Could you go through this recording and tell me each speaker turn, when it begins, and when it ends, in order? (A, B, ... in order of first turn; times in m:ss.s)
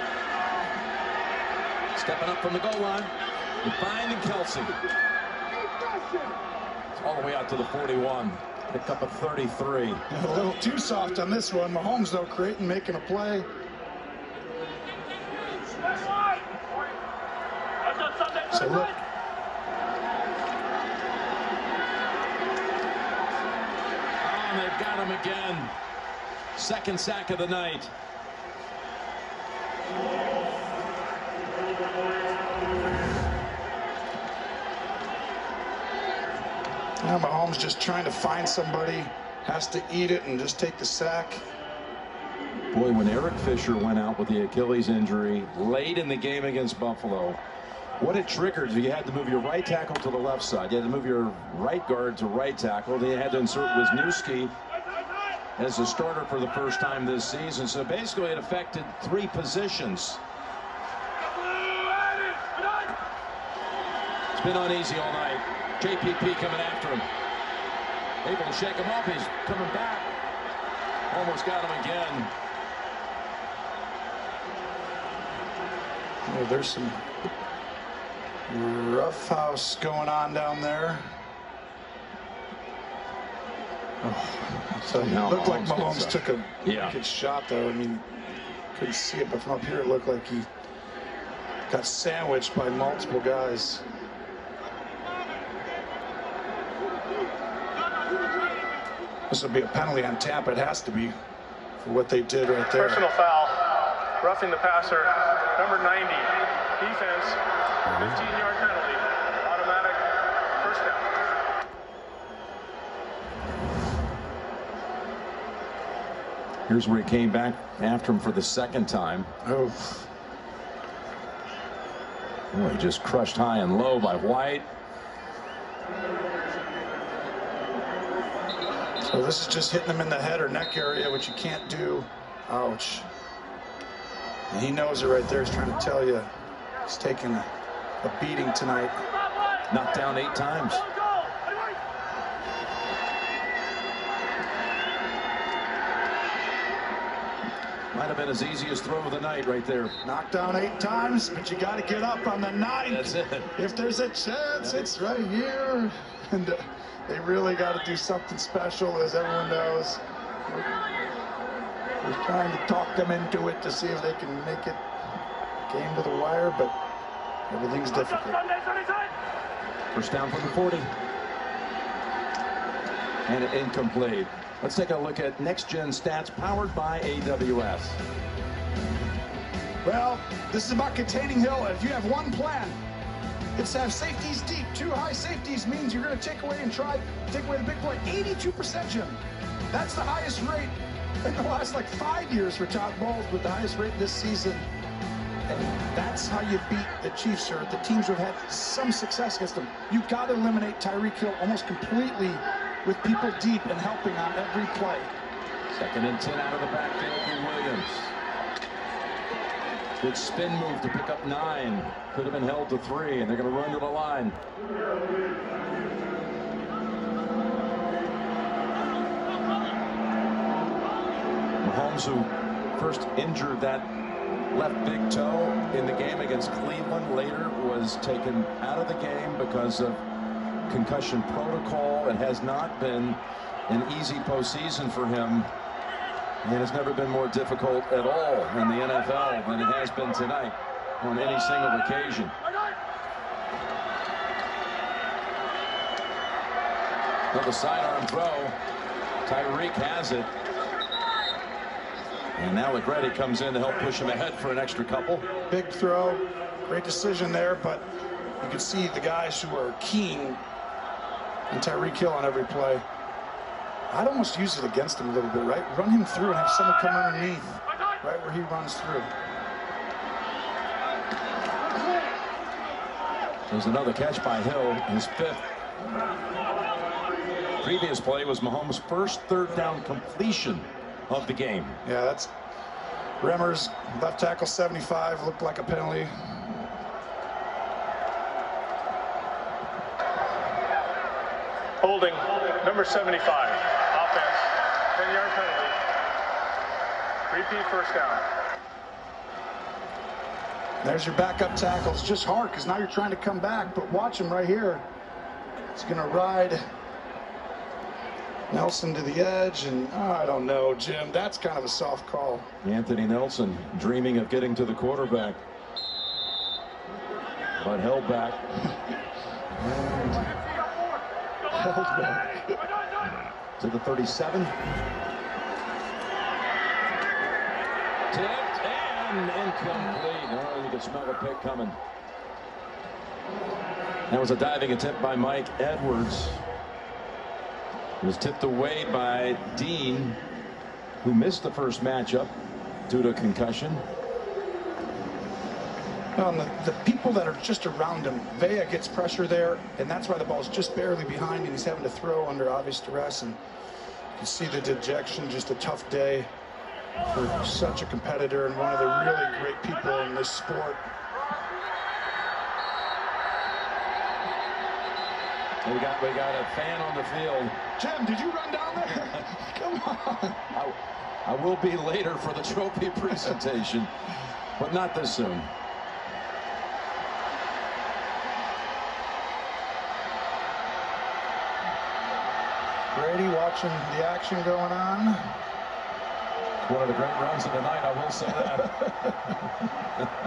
0:01.9-0:03.1 A
0:03.6-0:04.8 A
0:06.9-0:10.0 A
0:10.1-0:13.5 B
0:18.5-0:19.0 B
0:24.2-0:25.7 A
0:26.6-0:27.9 A
0:37.0-0:41.4 B
0:42.7-0:47.4 A
0:48.0-0:54.5 A
0:55.6-1:00.2 A
1:04.3-1:07.1 A
1:08.2-1:10.1 A
1:11.1-1:12.3 A
1:16.2-1:17.0 B
1:18.5-1:21.0 B
1:24.0-1:30.5 B
1:24.8-1:27.0 A
1:31.7-1:33.8 B
1:39.3-1:41.1 B
1:41.8-1:43.1 B
1:42.9-1:51.1 C
1:56.7-1:59.3 A
1:59.4-2:00.1 B
2:02.5-2:04.7 A
2:09.0-2:13.1 B
2:14.5-2:16.3 B
2:16.8-2:17.4 B
2:18.0-2:19.0 B
2:19.7-2:20.9 A
2:27.9-2:30.0 A
2:30.0-2:40.8 B
2:32.8-2:33.5 A
2:34.6-2:34.9 A
2:42.0-2:44.8 B
2:45.7-2:46.7 B
2:47.5-2:48.4 B
2:49.9-2:50.9 A
2:53.3-2:58.0 A
2:59.8-3:02.8 B
3:03.6-3:09.2 B
3:09.7-3:14.6 B
3:15.5-3:25.2 B
3:25.7-3:28.1 A
3:30.0-3:34.4 A
3:41.6-3:43.9 A
3:44.5-3:50.0 A
3:50.7-3:55.5 A
3:56.4-4:02.3 A
4:07.3-4:08.6 A
4:09.2-4:10.3 A
4:12.4-4:15.2 A
4:15.5-4:17.8 B
4:18.4-4:20.4 B
4:21.5-4:22.8 B
4:23.9-4:29.1 B
4:33.5-4:35.4 A
4:37.6-4:41.8 A
4:41.8-4:42.3 B
4:43.2-4:46.6 B
4:51.8-4:55.8 C
4:57.3-4:58.2 C
5:00.8-5:04.8 B
5:05.7-5:06.6 B
5:08.5-5:12.5 B
5:12.6-5:15.4 A
5:17.6-5:18.4 A
5:19.6-5:20.2 B
5:21.5-5:22.6 B
5:23.6-5:24.5 A
5:28.1-5:31.8 A
5:34.1-5:36.4 A
5:38.0-5:40.2 A
5:41.0-5:42.3 A
5:42.9-5:43.8 A
5:46.2-5:53.4 B
5:54.2-5:56.3 B
5:57.1-6:00.8 B
6:05.6-6:07.6 A
6:07.8-6:10.4 B
6:10.5-6:13.9 A
6:14.6-6:15.5 A
6:22.9-6:25.2 B
6:26.6-6:29.1 A